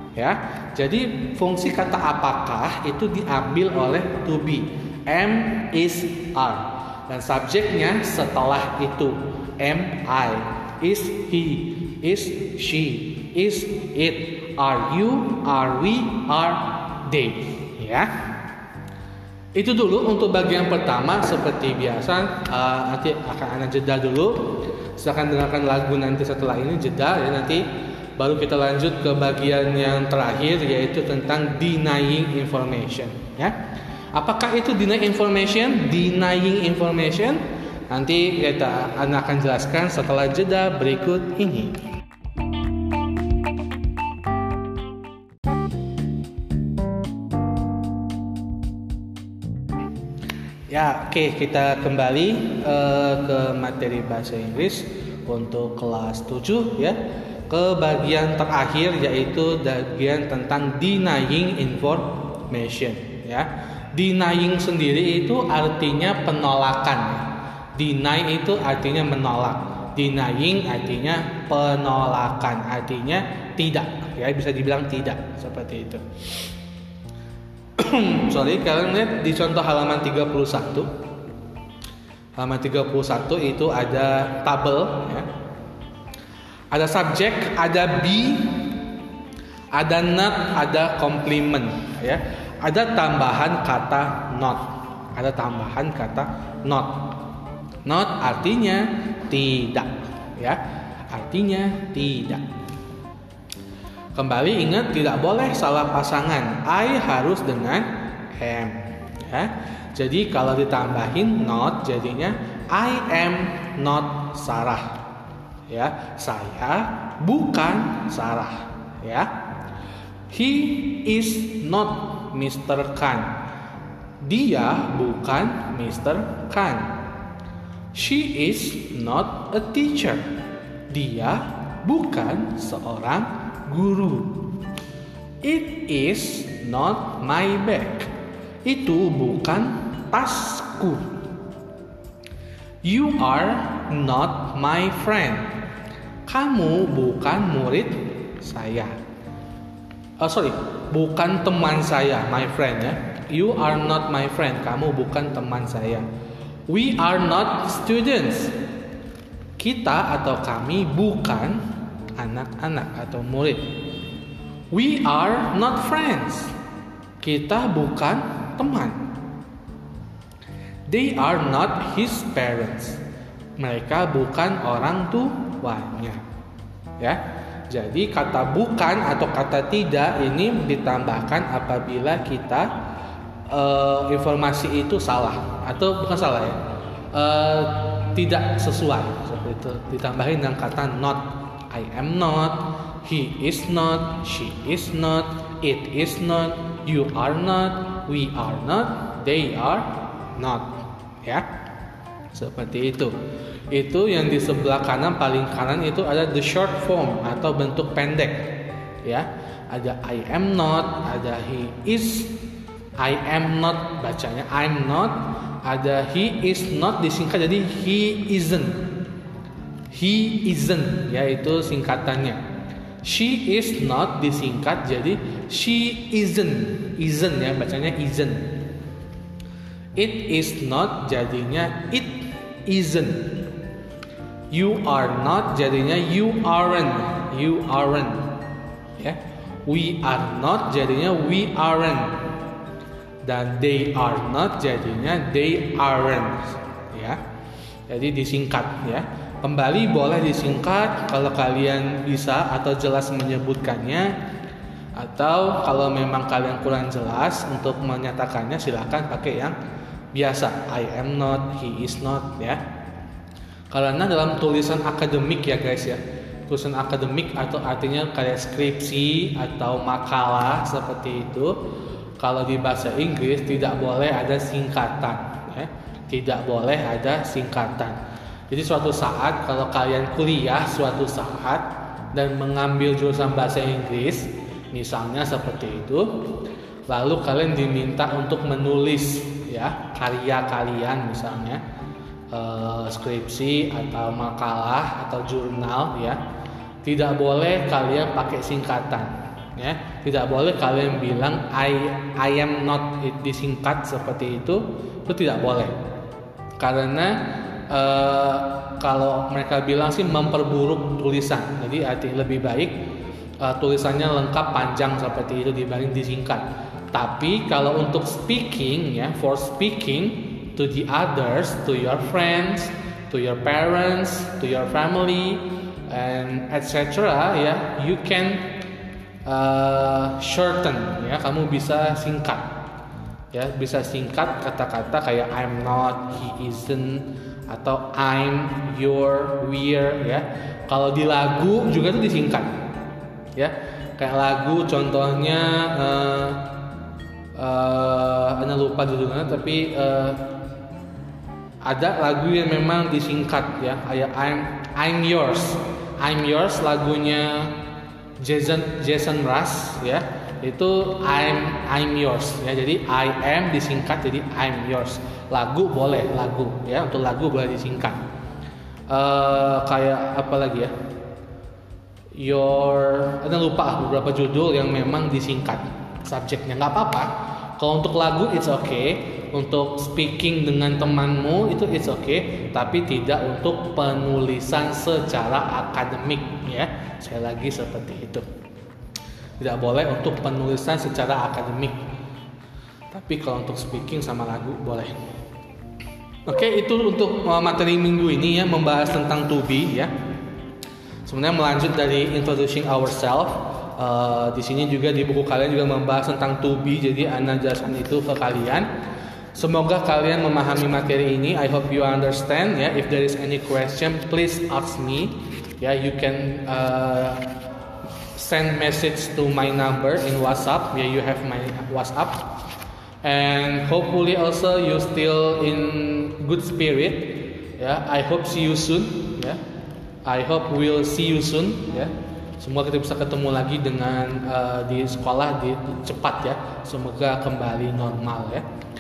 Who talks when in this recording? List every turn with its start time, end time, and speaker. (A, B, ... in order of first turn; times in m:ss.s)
0:00.2-0:18.1 A
0:19.6-0:27.7 A
0:28.2-0:33.6 A
0:34.1-0:41.8 A
0:50.7-1:16.1 A
1:17.8-1:20.9 A
1:22.4-1:25.3 A
1:26.7-1:28.7 A
1:29.7-1:37.1 A
1:37.8-1:42.5 A
1:44.1-1:55.0 A
1:55.7-1:59.3 A
2:00.3-2:03.3 A
2:04.2-2:07.0 A
2:07.9-2:10.3 A
2:10.9-2:14.5 A
2:15.4-2:18.1 A
2:18.6-2:21.1 A
2:22.8-2:25.5 A
2:26.3-2:29.0 A
2:30.2-2:36.1 A
2:36.7-2:38.6 A
2:39.6-2:43.7 A
2:44.7-2:46.6 A
2:47.2-2:49.1 A
2:50.9-2:53.0 A
2:53.6-2:56.2 A
2:57.0-3:02.7 A
3:03.5-3:06.6 A
3:07.1-3:21.5 A
3:22.3-3:23.2 A
3:23.7-3:32.4 A
3:33.0-3:38.9 A
3:39.9-3:42.4 A
3:43.0-3:48.7 A
3:50.0-3:53.6 A
3:54.5-3:58.4 A
3:59.0-4:02.3 A
4:03.2-4:07.2 A
4:07.9-4:14.1 A
4:15.0-4:19.6 A
4:20.1-4:22.6 A
4:23.7-4:31.6 A
4:32.2-4:38.0 A
4:38.5-4:46.2 A
4:46.9-4:51.6 A
4:52.3-4:56.2 A
4:56.8-5:05.8 A
5:06.6-5:12.8 A
5:13.4-5:28.5 A
5:29.3-5:32.6 A
5:33.3-5:42.6 A
5:43.4-5:46.5 A
5:47.4-5:50.3 A
5:51.6-5:57.5 A
5:58.2-6:08.0 A
6:08.9-6:10.7 A
6:12.2-6:28.3 A
6:29.4-6:31.9 A
6:32.9-6:34.9 A
6:36.3-6:39.9 A
6:41.1-6:48.7 A
6:49.3-6:57.2 A
6:58.2-7:02.4 A
7:03.0-7:09.4 A
7:10.0-7:18.5 A